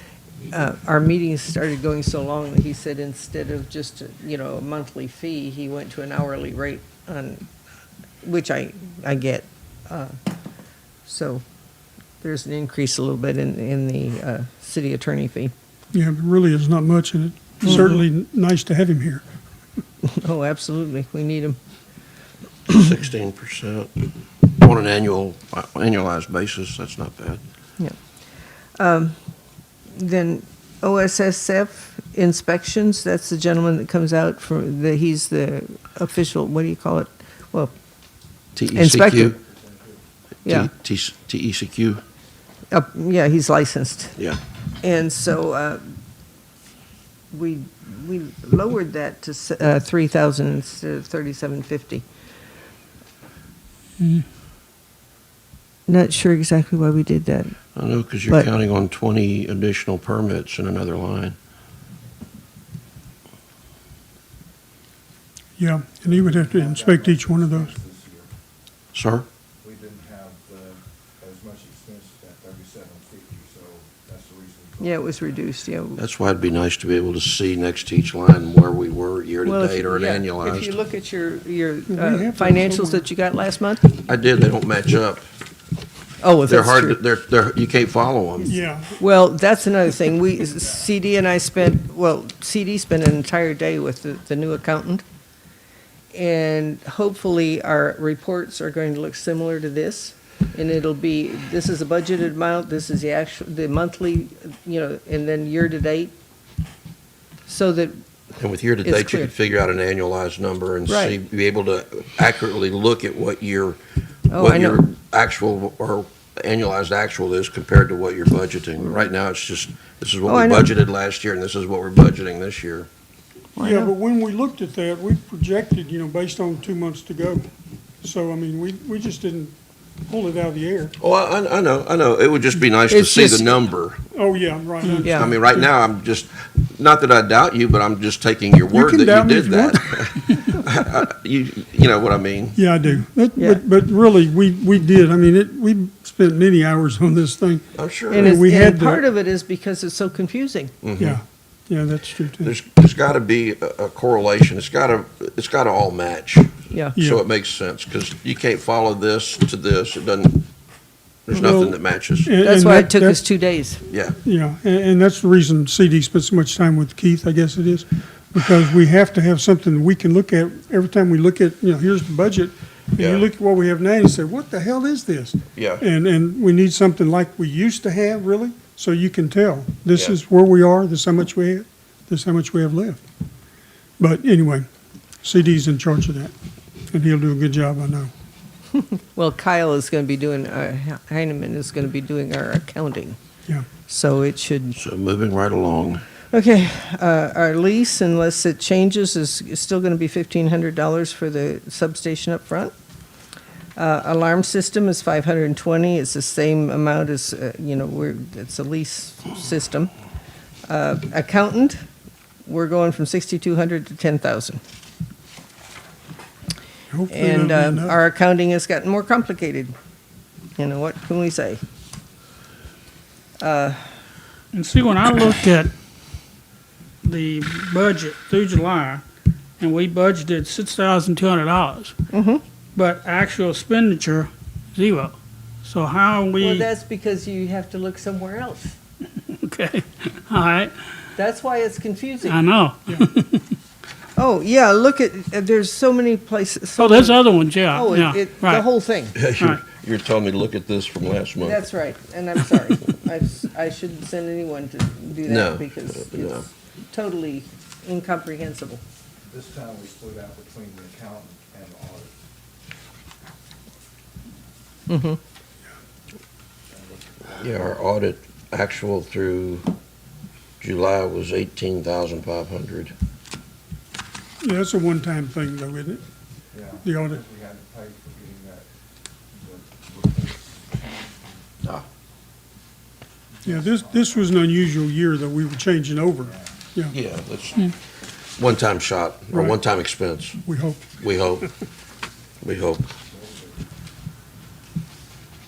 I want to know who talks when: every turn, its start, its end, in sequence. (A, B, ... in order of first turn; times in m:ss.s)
0:00.5-0:07.4 A
0:08.2-0:10.2 A
0:11.1-0:11.4 A
0:12.2-0:15.5 A
0:15.9-0:19.3 B
0:17.6-0:18.0 C
0:17.6-0:17.9 A
0:20.0-0:21.6 A
0:22.7-0:27.4 D
0:28.8-0:29.2 A
0:29.9-0:37.7 A
0:38.6-0:39.4 D
0:38.7-0:39.4 A
0:39.4-0:40.0 E
0:40.4-0:40.7 A
0:40.4-0:42.0 D
0:42.7-0:44.2 A
0:44.8-0:45.8 A
0:47.3-0:52.0 A
0:54.0-0:54.3 C
0:55.9-0:57.6 A
0:57.8-1:01.4 D
1:05.6-1:07.7 B
1:06.1-1:08.3 E
1:08.9-1:09.3 D
1:09.6-1:15.0 E
1:14.8-1:16.0 A
1:16.0-1:20.7 D
1:19.4-1:23.9 A
1:21.9-1:23.1 B
1:24.0-1:25.2 D
1:26.2-1:27.0 A
1:26.5-1:28.5 D
1:28.4-1:29.0 B
1:29.0-1:35.0 A
1:36.1-1:46.1 A
1:47.5-1:48.0 A
1:48.4-1:53.8 D
1:48.8-1:49.3 A
1:50.9-1:51.2 A
1:54.3-1:54.9 A
1:54.4-2:02.9 D
2:00.3-2:00.7 A
2:03.6-2:03.9 A
2:03.6-2:07.5 B
2:08.0-2:10.9 B
2:11.0-2:14.0 D
2:12.9-2:13.6 A
2:14.1-2:15.6 B
2:14.8-2:15.3 A
2:15.1-2:22.6 D
2:18.7-2:20.1 B
2:22.6-2:29.0 B
2:27.8-2:28.4 D
2:28.1-2:30.7 A
2:30.8-2:31.2 D
2:31.0-2:32.5 B
2:32.4-2:40.5 D
2:36.7-2:37.0 A
2:37.0-2:37.2 B
2:41.3-2:42.3 D
2:41.3-2:43.2 B
2:42.4-2:43.8 A
2:43.9-2:44.2 D
2:44.2-3:03.0 B
2:53.0-2:53.3 D
2:55.6-2:55.8 D
3:04.0-3:04.7 B
3:05.2-3:06.3 B
3:06.9-3:08.1 B
3:08.8-3:13.2 A
3:13.9-3:14.8 A
3:14.8-3:16.0 D
3:16.3-3:22.7 A
3:23.8-3:29.9 A
3:30.7-3:31.8 A
3:32.5-3:34.6 A
3:36.9-3:38.0 B
3:37.1-3:39.8 A
3:40.6-3:41.6 A
3:43.4-3:43.8 A
3:44.5-3:45.7 C
3:47.0-3:49.0 C
3:49.6-3:52.0 C
3:52.1-3:52.4 A
3:52.8-3:56.7 C
3:56.4-3:58.8 A
3:59.3-4:00.7 C
4:01.2-4:02.4 A
4:02.3-4:03.5 C
4:04.2-4:07.2 A
4:06.8-4:08.6 C
4:07.7-4:09.2 A
4:09.2-4:11.6 D
4:11.4-4:18.8 A
4:15.3-4:16.5 D
4:19.2-4:22.1 E
4:24.9-4:25.2 A
4:26.7-4:27.6 E
4:27.4-4:29.7 D
4:30.6-4:32.9 D
4:34.4-4:36.0 B
4:36.5-4:38.7 E
4:36.8-4:37.2 B
4:39.4-4:41.5 E
4:43.4-4:44.3 E
4:43.4-4:47.0 B
4:46.3-4:46.6 E
4:46.9-4:47.7 D
4:48.4-4:50.4 D
4:50.4-4:50.9 B
4:51.0-4:51.5 D
4:52.4-4:52.9 D
4:53.1-4:53.6 E